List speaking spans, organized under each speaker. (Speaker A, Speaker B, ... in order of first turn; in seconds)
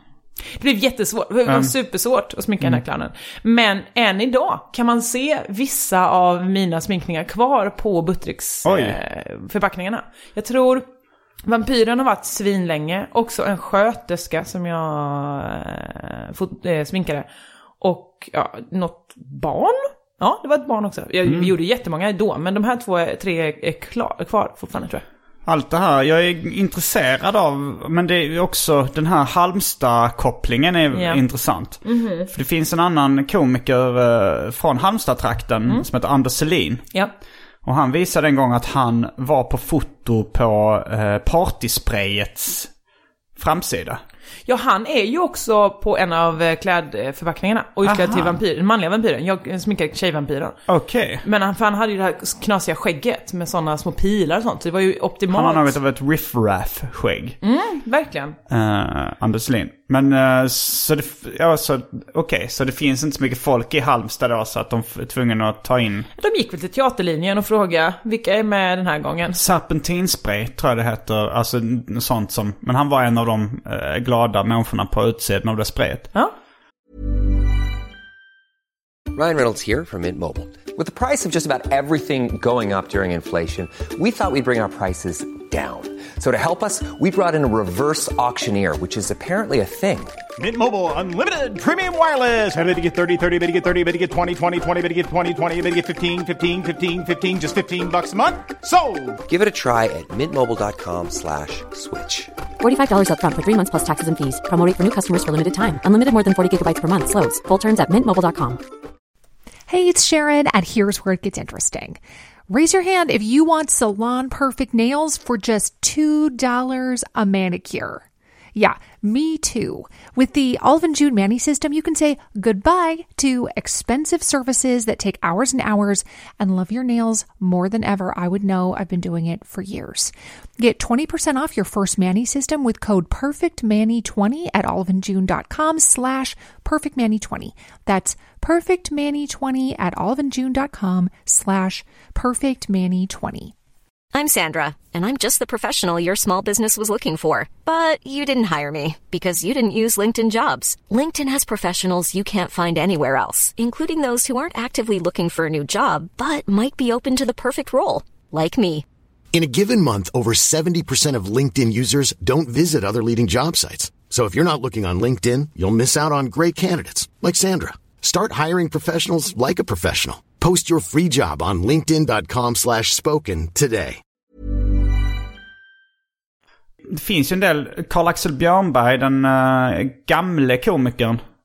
Speaker A: 0.5-10.8, 11.4-17.3, 17.8-25.0, 30.9-31.2, 31.8-32.3, 44.5-50.6, 51.2-55.7, 57.4-58.4, 66.2-69.4
Speaker B: 1.4-1.7, 8.6-9.0, 21.2-21.5, 25.4-36.9, 37.6-42.7, 43.4-44.0, 47.8-48.4, 50.7-51.2, 55.3-57.4, 58.5-66.1, 69.3-76.1, 176.9-181.2
Speaker C: 79.1-90.2, 99.3-102.3
Speaker D: 90.4-99.2
Speaker E: 102.6-108.6
Speaker F: 109.7-118.0, 118.5-143.5
Speaker G: 144.1-158.8
Speaker H: 159.3-174.0